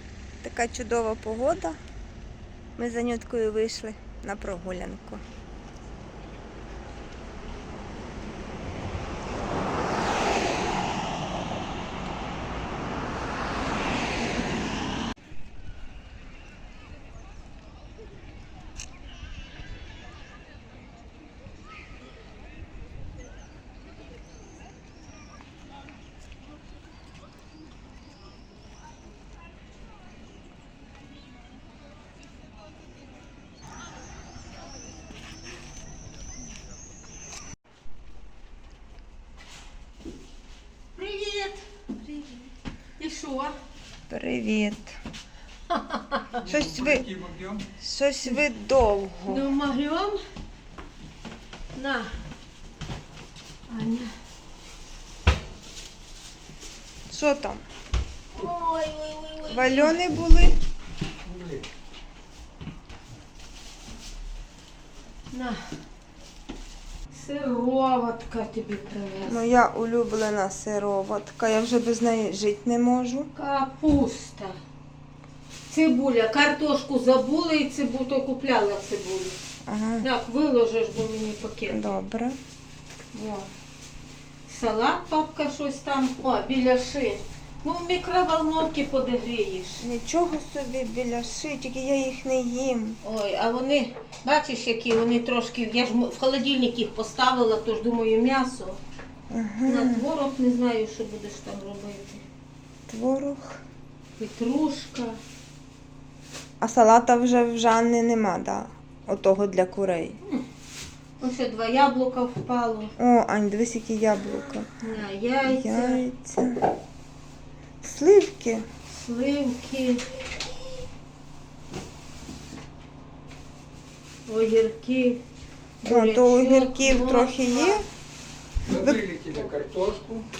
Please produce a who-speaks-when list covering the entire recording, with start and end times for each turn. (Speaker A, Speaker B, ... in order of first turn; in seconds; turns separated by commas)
Speaker A: 0.4-1.8, Speaker A: 2.8-5.2, Speaker B: 41.0-43.6, Speaker A: 44.1-45.0, Speaker B: 45.7-46.4, Speaker A: 46.4-47.1, Speaker C: 47.2-47.6, Speaker A: 47.8-49.5, Speaker B: 49.3-50.2, Speaker B: 51.8-52.1, Speaker B: 53.7-54.1, Speaker A: 57.1-57.6, Speaker B: 58.3-60.1, Speaker A: 59.5-60.6, Speaker B: 65.3-65.8, Speaker B: 67.1-69.5, Speaker A: 69.3-73.3, Speaker B: 73.3-74.6, Speaker B: 75.7-79.4, Speaker A: 79.7-80.1, Speaker B: 80.0-81.9, Speaker A: 81.7-82.4, Speaker B: 83.1-83.5, Speaker B: 84.5-89.8, Speaker A: 89.8-93.0, Speaker B: 93.0-98.8, Speaker A: 99.3-100.0, Speaker B: 99.7-102.2, Speaker A: 102.9-103.6, Speaker B: 104.2-105.2, Speaker A: 106.6-110.2, Speaker B: 111.2-112.9, Speaker A: 113.0-114.7, Speaker B: 114.4-116.1, Speaker A: 115.5-116.7, Speaker A: 117.8-118.7, Speaker B: 118.9-120.5, Speaker B: 124.3-125.2, Speaker B: 125.8-127.8, Speaker A: 125.8-127.8, Speaker A: 128.7-129.0, Speaker C: 128.7-130.2, Speaker B: 129.3-129.6